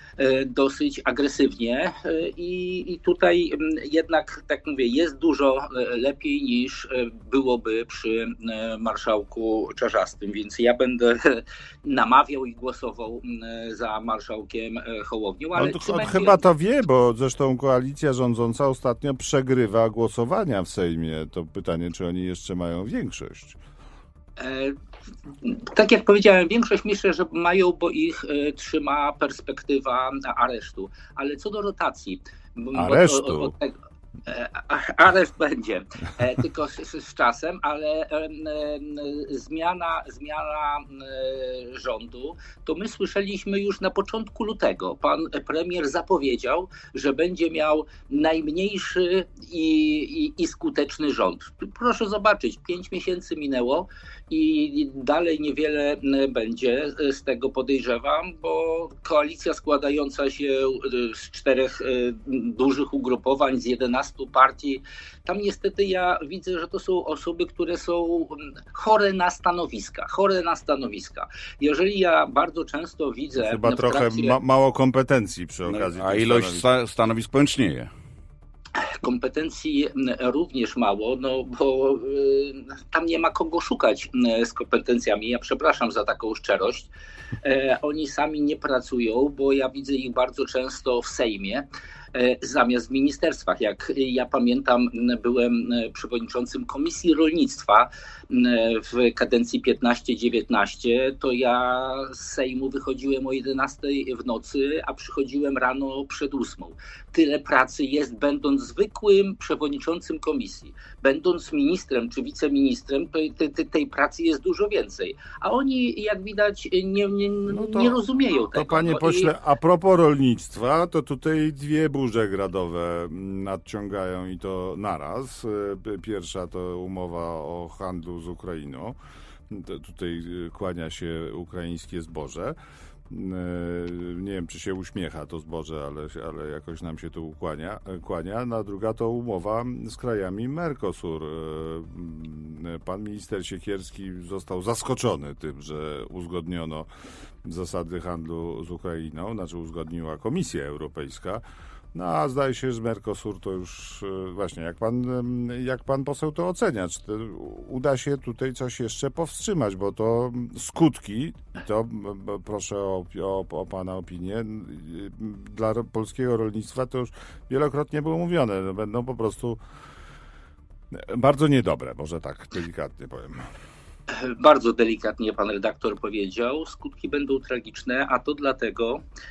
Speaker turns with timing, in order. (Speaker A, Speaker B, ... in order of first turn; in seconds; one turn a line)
Speaker A: 0.2-16.4
Speaker B: 15.6-23.6
Speaker A: 24.4-24.7
Speaker A: 25.4-33.7
Speaker B: 32.7-33.5
Speaker A: 34.3-74.4
Speaker B: 73.4-76.6
Speaker C: 75.7-77.9
Speaker A: 79.0-86.9
Speaker A: 87.4-119.3
Speaker B: 117.5-118.0
Speaker B: 118.5-129.0
Speaker B: 129.5-132.6
Speaker B: 133.1-146.9
Speaker B: 147.4-151.4
Speaker B: 151.9-169.6
Speaker B: 170.9-173.4
Speaker A: 174.1-179.0